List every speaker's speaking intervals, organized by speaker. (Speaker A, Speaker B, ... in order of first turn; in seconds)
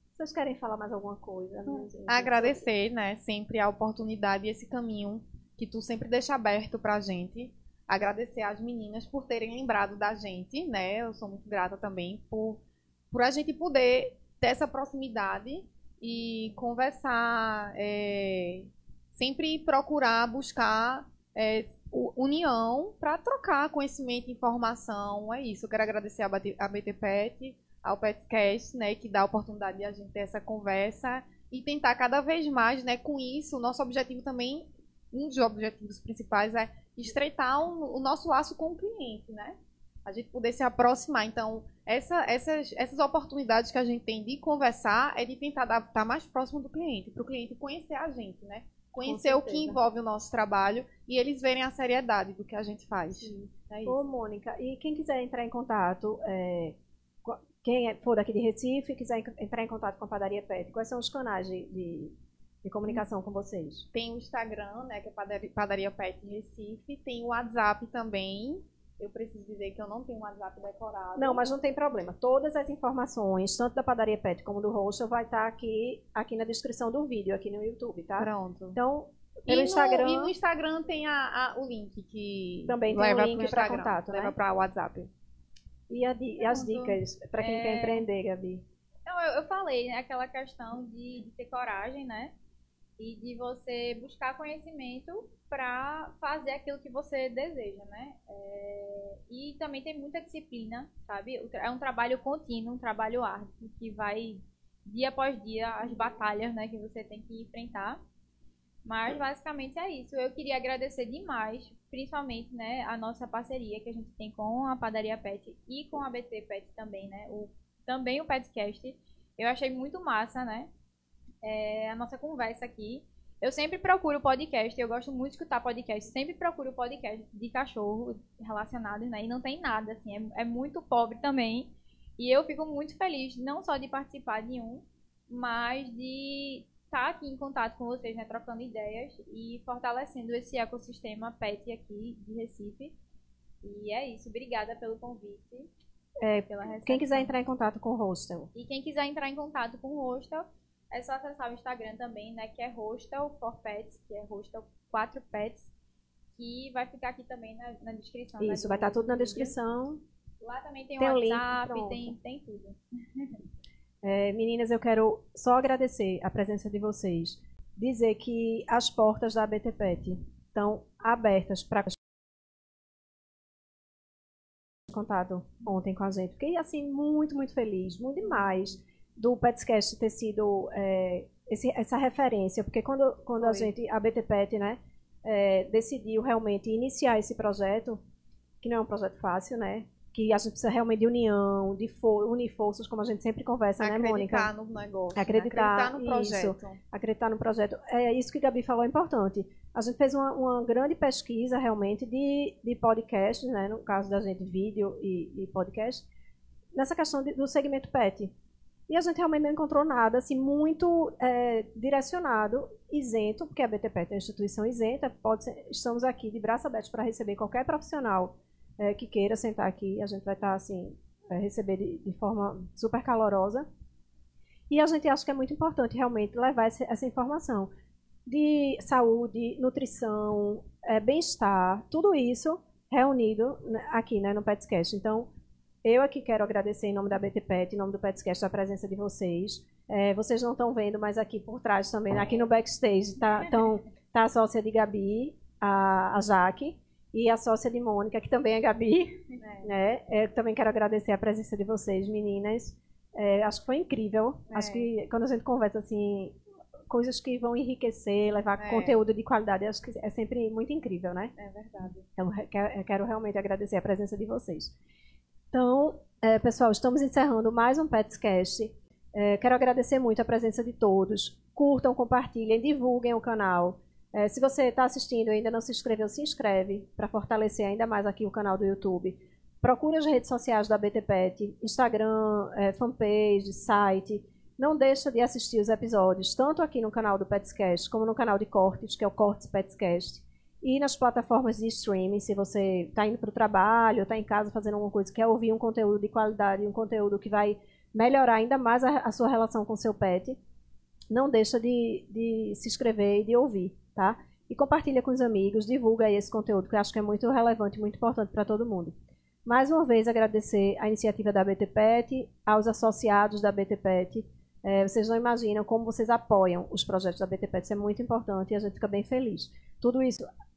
Speaker A: 0.1-2.6, 49.0-49.8, 53.2-63.9, 71.2-80.3, 82.7-84.3, 85.9-88.6, 146.2-148.5, 158.4-160.0, 161.0-162.2, 164.0-172.0, 174.9-188.0, 188.6-194.5, 195.1-206.1, 206.7-208.3, 208.9-223.7, 224.7-227.7, 228.2-235.3, 235.8-261.3, 262.1-264.7, 265.5-300.4, 301.1-320.2
Speaker B: 1.7-54.0, 63.9-71.4, 78.2-78.8, 79.5-85.1, 183.4-183.7, 193.8-196.8, 249.4-249.7, 254.5-254.9, 258.6-259.0, 261.4-262.0
Speaker C: 86.4-88.0, 89.0-92.3, 93.0-108.0, 108.8-120.7, 121.4-142.9, 143.6-145.7, 146.3-147.3, 148.5-155.7, 156.3-159.6, 160.4-163.4